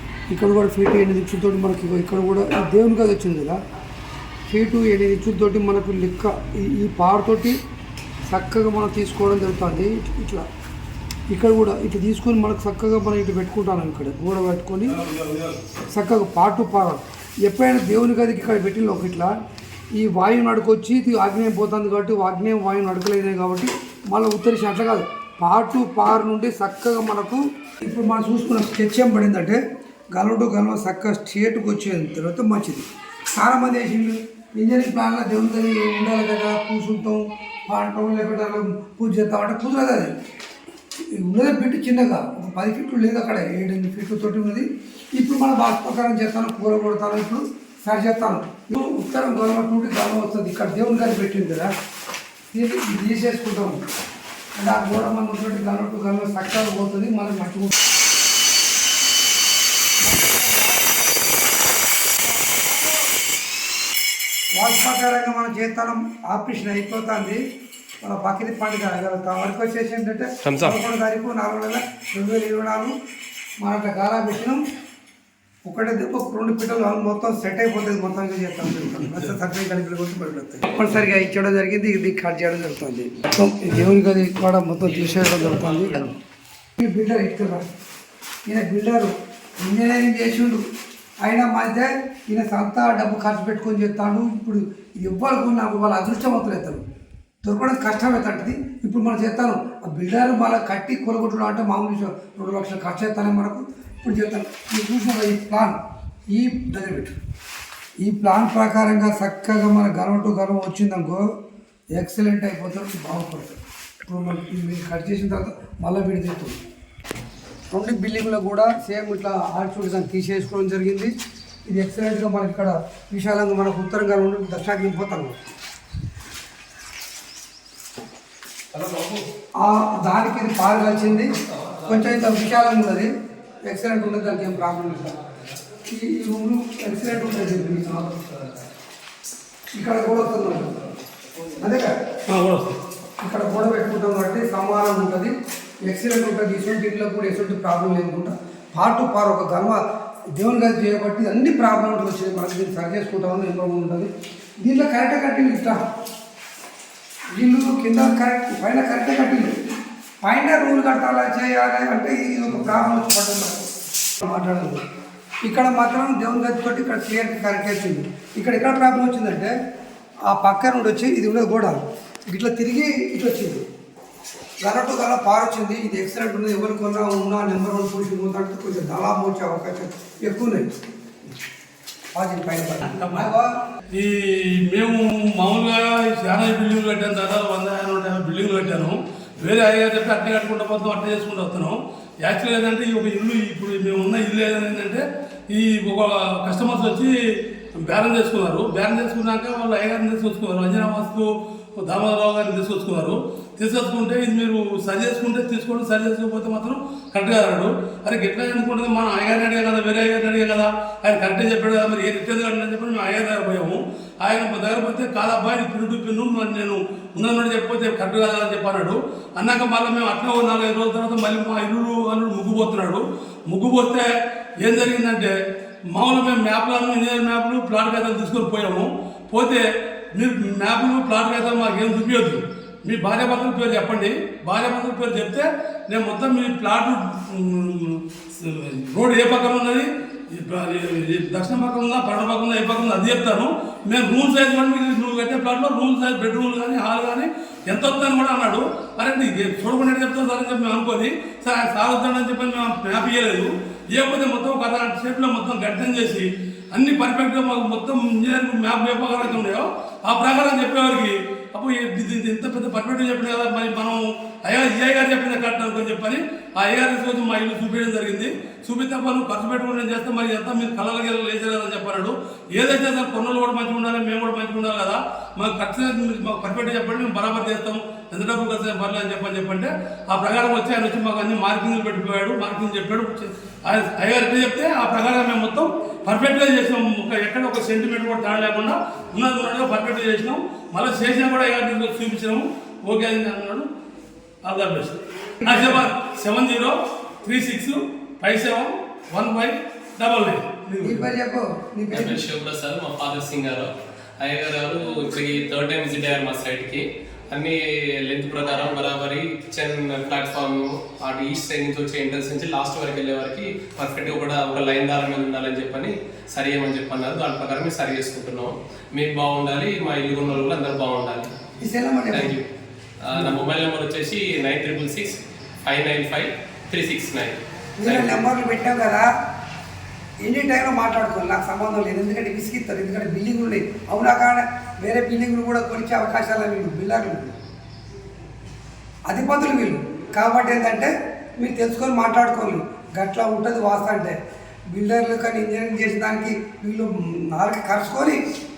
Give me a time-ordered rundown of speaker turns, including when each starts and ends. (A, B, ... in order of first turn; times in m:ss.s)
0:00.3-0:03.6 A
0:04.5-0:07.6 A
0:08.3-0:10.4 A
0:11.3-0:15.0 A
0:15.9-0:19.4 A
0:20.0-0:29.6 A
0:30.1-0:40.1 A
0:41.1-0:51.7 A
0:52.5-0:53.8 A
0:54.6-0:57.8 A
1:00.0-1:01.3 A
1:02.3-1:03.0 A
1:04.6-1:07.4 A
1:08.0-1:12.9 A
1:10.4-1:10.8 B
1:13.6-1:14.6 A
1:15.6-1:26.1 A
1:19.0-1:19.4 C
1:24.8-1:26.0 B
1:26.8-1:27.6 A
1:28.5-1:30.6 A
1:31.2-1:36.8 A
1:37.4-1:45.8 A
1:46.3-1:47.1 A
1:48.0-1:51.2 A
1:51.9-1:56.6 A
1:57.7-2:01.1 A
2:01.7-2:05.4 A
2:09.6-2:11.3 A
2:11.8-2:13.1 A
2:13.7-2:15.2 A
2:15.7-2:18.5 A
2:19.8-2:20.9 A
2:21.6-2:21.9 A
2:22.3-2:22.8 C
2:23.2-2:25.3 A
2:25.8-2:29.8 A
2:30.3-2:34.1 A
2:34.6-2:35.8 A
2:37.3-2:39.5 A
2:40.2-2:43.7 A
2:44.2-2:44.8 A
2:45.4-2:49.5 A
2:50.3-2:53.6 A
2:54.6-3:00.7 A
3:02.1-3:03.5 A
3:02.8-3:03.3 C
3:03.9-3:17.2 C
3:17.8-3:45.4 C
3:45.9-4:53.7 C
4:54.4-5:01.1 C
5:00.8-5:02.2 A
5:01.9-5:21.3 B
5:21.6-5:22.3 A
5:22.1-5:22.4 B
5:23.0-5:28.2 B
5:27.8-5:29.1 A
5:30.2-5:37.4 A
5:39.1-5:44.2 A
5:44.7-5:48.2 A